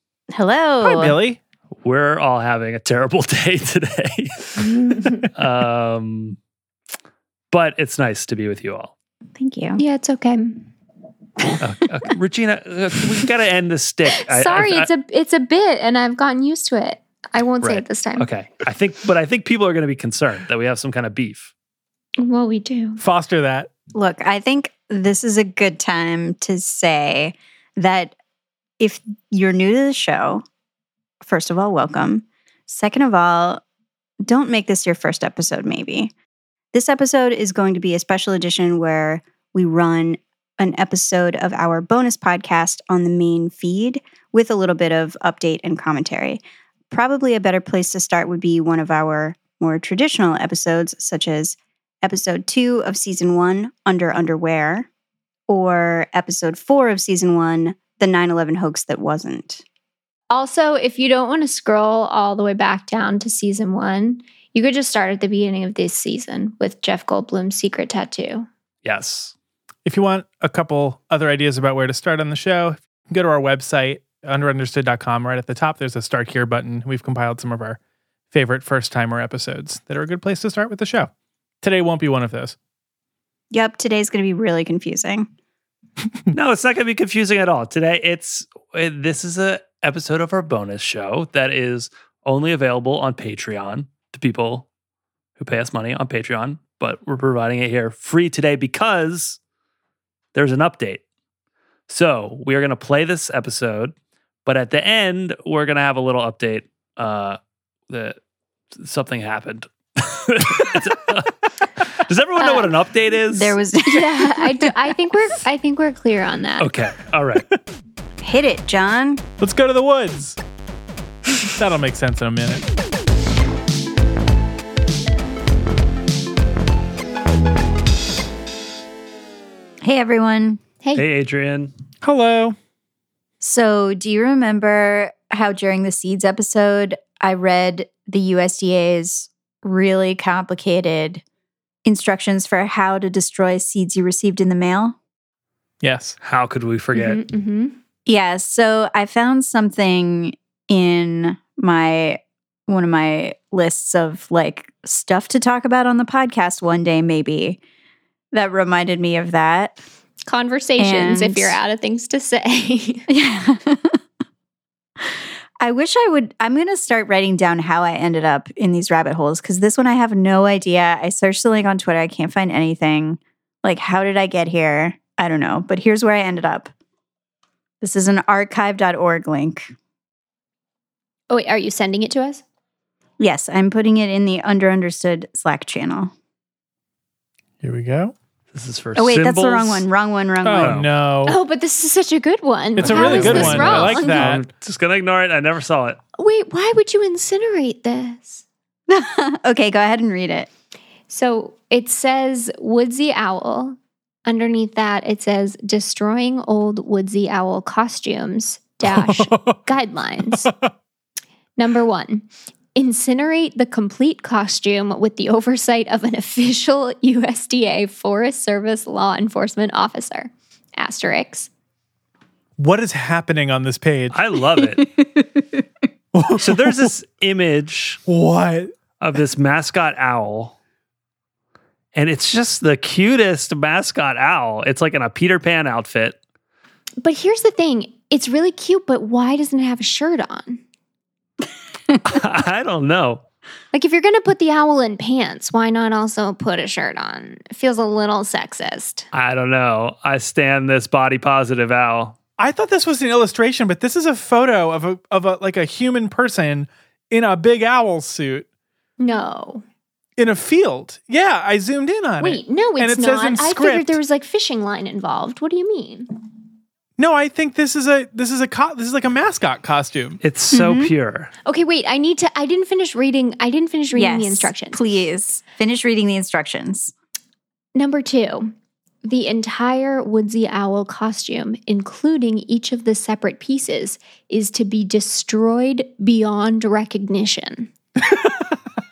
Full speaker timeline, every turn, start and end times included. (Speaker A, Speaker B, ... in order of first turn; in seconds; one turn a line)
Speaker A: 0.3-1.2
Speaker B: 0.8-1.4
Speaker C: 1.8-4.6
Speaker D: 5.0-5.2
Speaker C: 5.3-6.4
Speaker C: 7.5-8.9
Speaker A: 9.3-9.8
Speaker D: 9.8-10.7
Speaker C: 11.6-14.9
Speaker D: 14.2-18.3
Speaker C: 17.6-21.5
Speaker D: 22.2-23.0
Speaker B: 23.0-23.7
Speaker A: 23.9-28.1
Speaker A: 28.8-30.4
Speaker A: 31.2-33.6
Speaker A: 34.2-36.1
Speaker A: 36.7-54.9
Speaker A: 55.5-59.6
Speaker D: 60.3-68.5
Speaker C: 68.8-69.3
Speaker B: 69.8-77.8
Speaker B: 78.3-81.1
Speaker B: 81.6-82.5
Speaker A: 83.5-85.3
Speaker C: 86.3-94.7
Speaker C: 95.4-99.4
Speaker C: 100.3-101.0
Speaker C: 101.9-107.4
Speaker C: 107.9-108.2
Speaker C: 108.8-113.5
Speaker D: 112.4-112.7
Speaker A: 113.3-114.7
Speaker D: 113.9-116.7
Speaker C: 116.6-117.4
Speaker A: 118.2-119.2
Speaker B: 119.4-120.4
Speaker B: 121.5-122.7
Speaker A: 129.8-130.6
Speaker C: 130.9-131.7
Speaker B: 132.0-132.6
Speaker A: 133.4-141.2
Speaker A: 141.8-144.9
Speaker B: 145.8-146.2
Speaker C: 146.2-147.2
Speaker D: 146.9-147.8
Speaker A: 148.1-157.6
Speaker A: 158.3-159.8
Speaker D: 160.2-163.1
Speaker A: 160.8-161.6
Speaker A: 163.1-164.0
Speaker A: 165.0-176.7
Speaker A: 177.8-179.7
Speaker D: 181.3-182.4
Speaker A: 183.2-186.1
Speaker B: 187.6-188.1
Speaker C: 188.5-189.8
Speaker A: 188.9-190.8
Speaker B: 190.4-191.4
Speaker C: 190.6-190.9
Speaker D: 191.2-194.3
Speaker C: 192.8-196.0
Speaker B: 192.8-194.4
Speaker D: 196.2-198.4
Speaker A: 198.9-200.5
Speaker D: 201.1-210.5
Speaker B: 208.8-209.6
Speaker D: 211.6-221.5
Speaker B: 222.6-224.2
Speaker C: 224.1-224.8
Speaker A: 225.0-225.2
Speaker B: 226.1-226.9
Speaker C: 226.4-228.0
Speaker B: 228.1-228.7
Speaker C: 229.0-230.5
Speaker C: 231.9-236.2
Speaker D: 237.0-240.6
Speaker C: 242.0-243.2
Speaker D: 243.7-249.1
Speaker C: 249.1-252.2
Speaker B: 252.4-258.4
Speaker D: 259.0-259.6
Speaker B: 260.2-264.0
Speaker D: 262.2-266.1
Speaker B: 267.0-270.2
Speaker C: 270.2-271.3
Speaker A: 270.5-270.9
Speaker D: 271.4-274.8
Speaker A: 273.9-276.9
Speaker D: 277.7-278.5
Speaker D: 279.0-287.7